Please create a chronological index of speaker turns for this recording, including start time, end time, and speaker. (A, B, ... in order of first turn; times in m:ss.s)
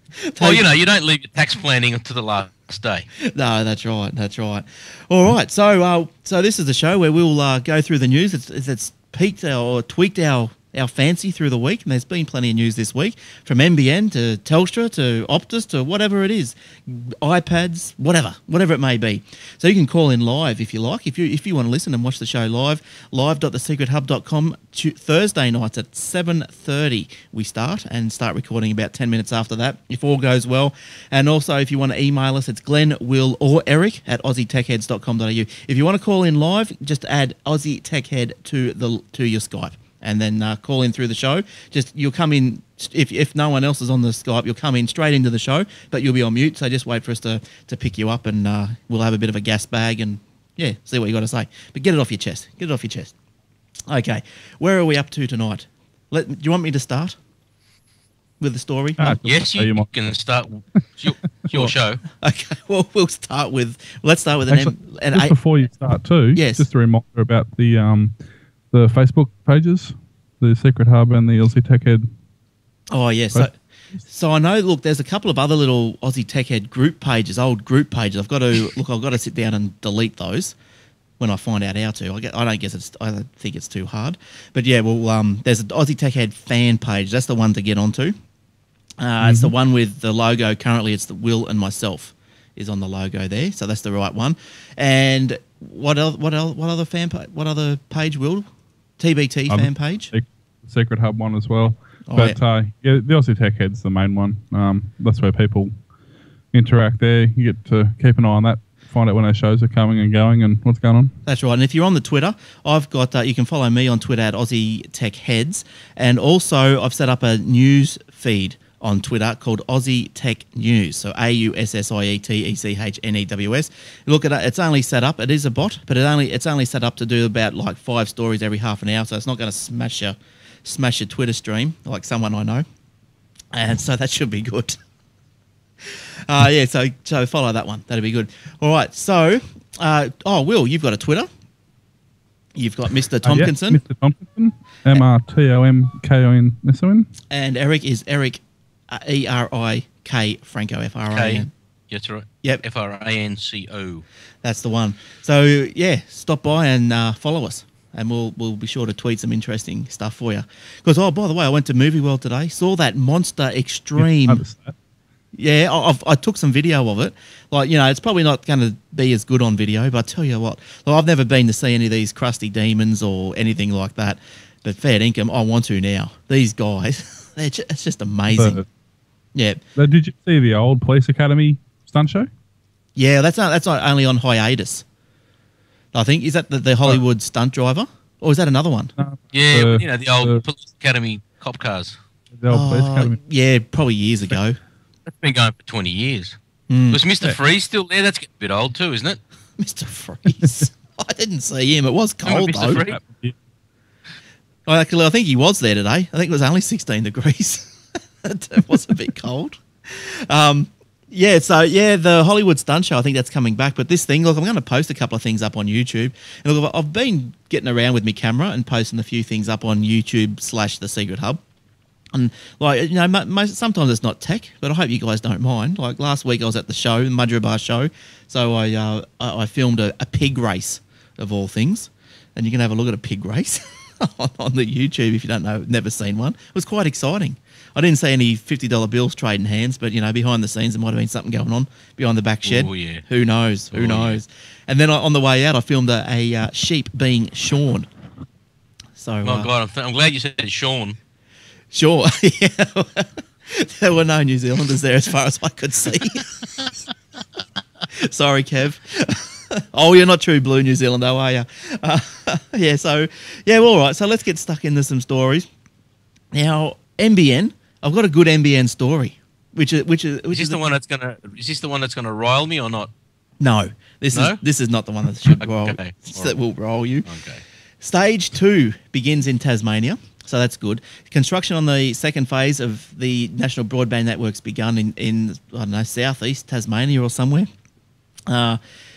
0:00.3-0:00.6 A
0:00.4-0:03.1 B
0:03.2-0:53.1 A
0:53.9-0:57.2 A
0:58.4-0:59.2 A
0:59.0-0:59.9 C
0:59.2-1:02.0 B
1:02.2-1:05.4 A
1:04.5-1:08.1 C
1:06.4-1:06.7 A
1:08.7-1:12.1 C
1:12.9-1:20.6 A
1:21.2-1:28.2 A
1:29.0-1:38.5 A
1:29.2-1:29.5 C
1:39.0-1:40.1 A
1:39.5-1:45.7 C
1:42.1-1:42.4 A
1:46.5-1:51.1 C
1:51.3-2:12.6 A
2:13.5-2:14.8 A
2:15.9-2:21.3 A
2:22.6-2:23.8 A
2:23.2-2:27.1 C
2:27.3-2:31.5 A
2:31.1-2:34.0 B
2:34.4-2:44.4 A
2:44.0-2:44.8 C
2:45.4-2:58.6 A
2:58.3-2:58.6 C
2:59.4-2:59.6 A
2:59.8-3:02.3 C
3:03.0-3:04.8 A
3:05.9-3:08.9 A
3:09.0-3:10.4 C
3:09.3-3:12.0 B
3:12.4-3:13.2 C
3:12.5-3:14.6 A
3:15.2-3:16.4 B
3:16.7-3:17.0 A
3:16.9-3:19.2 B
3:19.6-3:22.8 A
3:22.2-3:23.0 B
3:22.6-3:23.4 C
3:24.7-3:27.7 A
3:28.2-3:41.4 A
3:42.2-4:07.9 A
4:02.5-4:03.0 B
4:03.7-4:04.2 B
4:09.0-4:09.5 A
4:09.2-4:11.0 B
4:11.7-4:16.3 A
4:18.0-4:25.5 A
4:26.3-4:30.6 A
4:30.3-4:32.9 B
4:33.4-4:37.1 A
4:34.1-4:34.4 B
4:35.3-4:36.4 B
4:37.1-4:37.4 B
4:37.8-4:47.5 A
4:48.3-4:48.6 A